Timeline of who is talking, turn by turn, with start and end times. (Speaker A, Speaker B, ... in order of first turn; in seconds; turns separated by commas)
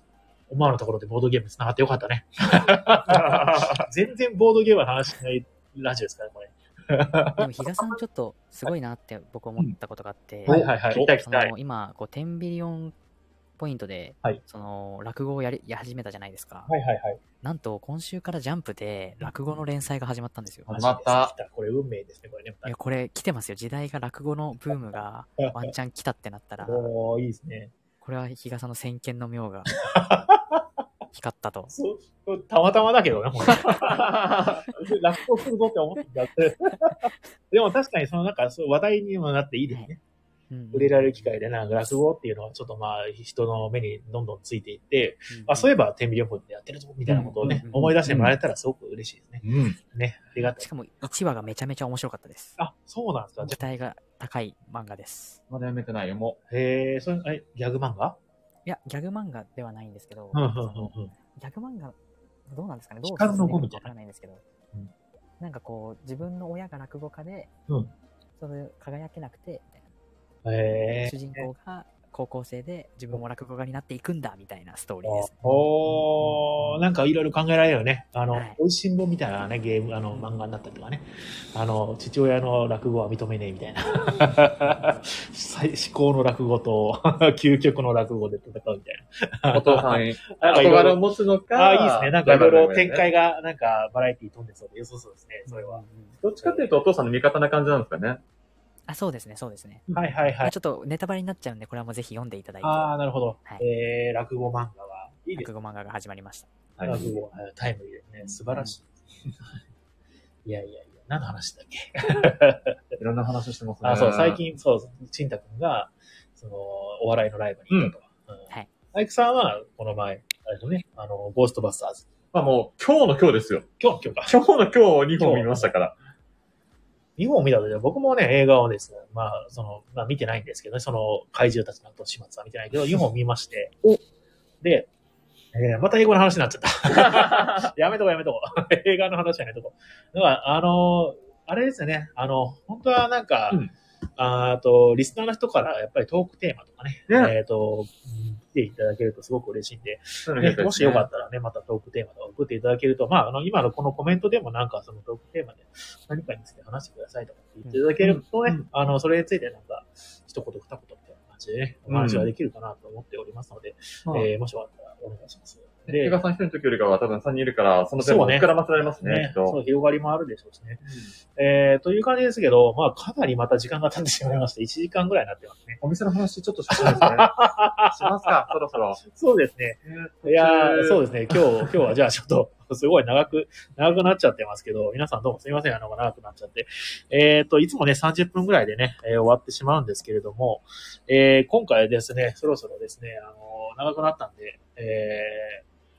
Speaker A: 0.5-7.4, Speaker B: 3.0-3.9, Speaker C: 7.4-12.9, Speaker B: 10.4-11.5, Speaker A: 10.4-11.1, Speaker C: 13.6-16.7, Speaker A: 16.7-17.2, Speaker C: 17.4-20.7, Speaker B: 20.7-21.3, Speaker A: 20.7-22.7, Speaker C: 22.6-26.9, Speaker A: 25.4-25.7, Speaker A: 26.6-27.7, Speaker C: 28.0-29.7, Speaker A: 29.8-30.6, Speaker C: 31.1-31.7, Speaker A: 31.7-40.0, Speaker B: 33.8-34.6, Speaker C: 36.7-36.9, Speaker C: 40.5-41.4, Speaker A: 40.7-50.6, Speaker C: 45.3-45.7, Speaker B: 47.1-48.3, Speaker C: 47.1-47.9, Speaker B: 49.4-49.8, Speaker C: 50.4-52.6, Speaker A: 52.6-53.6, Speaker C: 53.4-55.4, Speaker B: 55.5-56.4, Speaker A: 56.5-58.2, Speaker C: 58.6-62.0, Speaker A: 60.3-61.1, Speaker C: 62.5-64.4, Speaker A: 63.0-63.9, Speaker C: 65.4-67.5, Speaker C: 68.4-69.8, Speaker A: 70.4-71.5, Speaker C: 71.0-76.8, Speaker A: 75.0-95.8, Speaker C: 78.3-78.6, Speaker C: 80.1-80.5, Speaker B: 89.5-93.1, Speaker C: 95.5-96.2, Speaker B: 96.2-98.2, Speaker A: 96.4-96.7, Speaker C: 98.9-99.9, Speaker A: 99.9-100.5, Speaker C: 100.4-102.9, Speaker A: 102.6-105.5, Speaker C: 105.3-106.5, Speaker B: 106.8-107.1, Speaker A: 106.8-108.9, Speaker A: 110.4-112.7, Speaker B: 113.0-114.4, Speaker A: 113.8-122.1, Speaker B: 122.3-123.7, Speaker A: 123.8-124.4, Speaker B: 124.2-126.0, Speaker A: 125.2-125.7, Speaker A: 127.2-133.8, Speaker A: 134.6-134.9, Speaker A: 135.5-143.6, Speaker B: 137.0-137.7, Speaker A: 144.2-166.2, Speaker B: 147.1-147.3, Speaker B: 150.2-151.1, Speaker B: 158.0-158.7, Speaker B: 161.9-162.3, Speaker B: 165.9-169.6, Speaker A: 168.0-175.8, Speaker B: 170.8-171.1, Speaker B: 175.8-177.3, Speaker A: 176.7-195.6, Speaker B: 177.9-179.0, Speaker B: 179.8-181.7